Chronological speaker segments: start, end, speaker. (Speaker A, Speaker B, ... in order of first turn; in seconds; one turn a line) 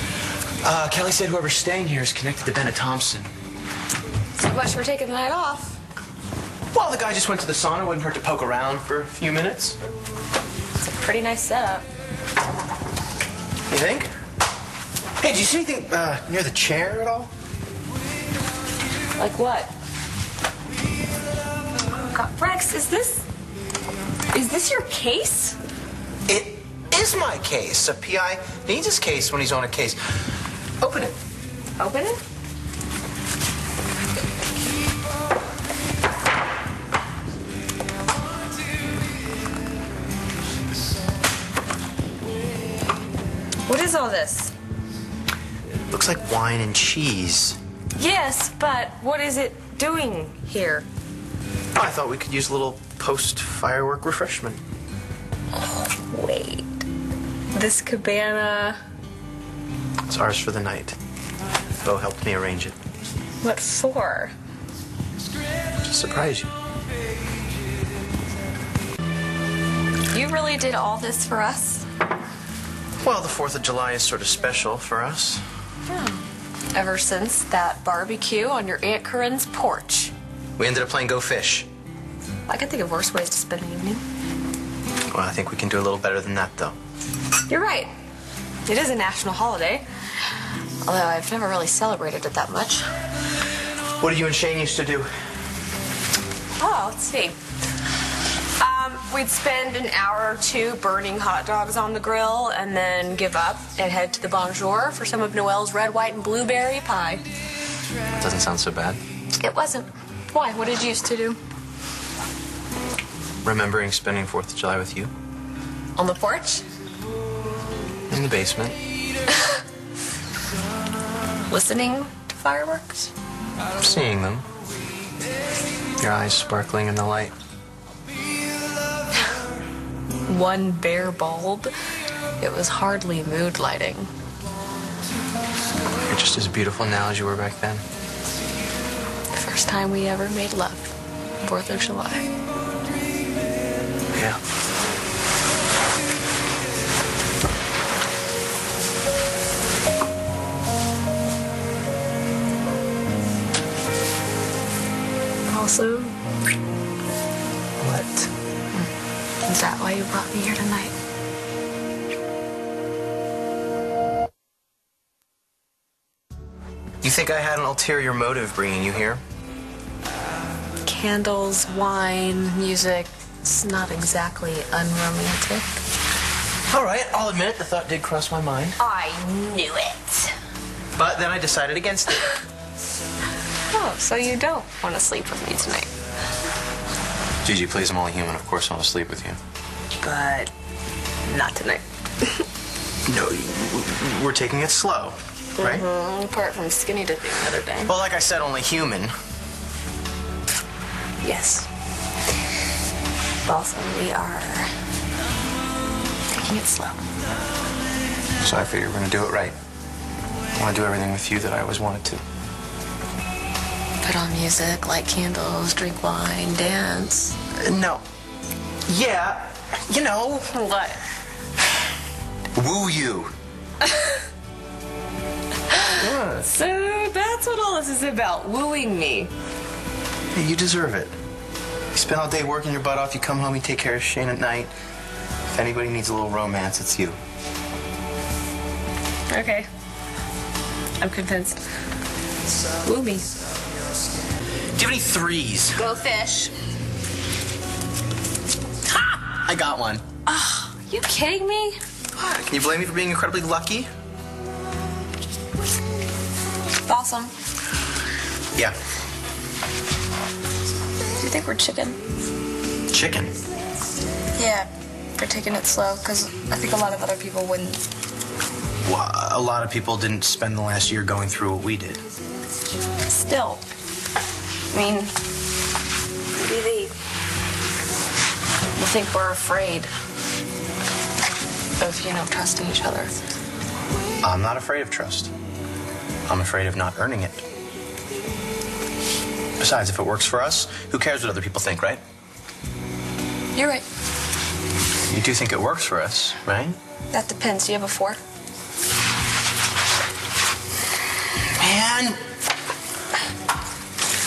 Speaker A: 0.6-3.3
Speaker B: 4.4-5.8
Speaker A: 6.7-9.8
Speaker B: 10.8-11.9
Speaker A: 13.7-14.1
Speaker A: 15.2-17.3
Speaker B: 19.2-19.7
Speaker B: 22.0-23.2
Speaker B: 24.3-25.6
Speaker A: 26.3-30.0
Speaker A: 30.8-31.2
Speaker B: 31.8-32.2
Speaker B: 43.7-44.5
Speaker A: 45.9-47.6
Speaker B: 48.0-50.9
Speaker A: 51.8-54.6
Speaker B: 55.5-56.9
Speaker B: 57.5-58.8
Speaker A: 60.1-61.0
Speaker A: 61.8-62.8
Speaker B: 63.4-64.3
Speaker A: 65.8-66.5
Speaker B: 70.1-71.9
Speaker A: 73.0-75.4
Speaker B: 75.9-76.2
Speaker B: 76.7-80.1
Speaker A: 80.6-81.7
Speaker B: 82.5-84.0
Speaker A: 85.1-86.8
Speaker B: 87.5-87.9
Speaker B: 88.7-89.8
Speaker B: 90.8-92.9
Speaker A: 94.0-95.1
Speaker B: 96.6-97.4
Speaker B: 98.6-107.3
Speaker A: 108.1-109.0
Speaker B: 109.4-111.4
Speaker A: 113.4-115.1
Speaker B: 116.0-116.7
Speaker A: 118.1-118.8
Speaker B: 121.5-123.1
Speaker A: 123.8-124.5
Speaker A: 126.0-127.3
Speaker B: 130.3-131.7
Speaker B: 132.4-134.1
Speaker A: 136.1-137.8
Speaker B: 139.3-142.3
Speaker A: 144.1-144.4
Speaker B: 155.5-156.2
Speaker A: 157.8-158.3
Speaker B: 159.5-160.9
Speaker A: 167.0-169.2
Speaker B: 170.8-175.7
Speaker A: 176.7-178.8
Speaker B: 178.8-180.3
Speaker A: 180.9-182.3
Speaker B: 183.7-185.9
Speaker A: 187.4-189.4
Speaker B: 190.0-190.5
Speaker B: 191.3-192.5
Speaker A: 193.1-195.9
Speaker B: 195.6-197.9
Speaker A: 197.8-199.1
Speaker B: 201.2-201.7
Speaker B: 203.5-204.7
Speaker B: 206.3-207.0
Speaker A: 208.4-209.6
Speaker A: 210.6-212.2
Speaker B: 214.0-217.3
Speaker A: 217.6-218.0
Speaker A: 218.9-220.5
Speaker B: 220.5-221.0
Speaker A: 222.5-223.3
Speaker B: 223.9-224.2
Speaker B: 225.7-229.3
Speaker A: 226.0-226.5
Speaker A: 230.3-231.2
Speaker A: 231.9-234.7
Speaker A: 235.5-237.2
Speaker B: 239.3-239.7
Speaker B: 241.0-241.6
Speaker B: 242.8-243.3
Speaker A: 244.8-245.8
Speaker B: 245.8-246.5
Speaker A: 249.4-250.0
Speaker B: 250.3-251.8
Speaker A: 252.2-253.9
Speaker B: 256.9-257.3
Speaker B: 261.2-262.0
Speaker A: 262.9-263.3
Speaker B: 264.4-267.8
Speaker A: 268.8-272.0
Speaker B: 273.1-273.6
Speaker B: 274.7-275.1
Speaker B: 276.4-276.9
Speaker B: 278.8-279.9
Speaker B: 281.8-283.1
Speaker A: 284.2-285.3
Speaker A: 286.3-287.4
Speaker A: 289.6-292.0
Speaker B: 293.6-293.9
Speaker A: 295.1-296.8
Speaker B: 297.1-298.2
Speaker A: 301.6-302.2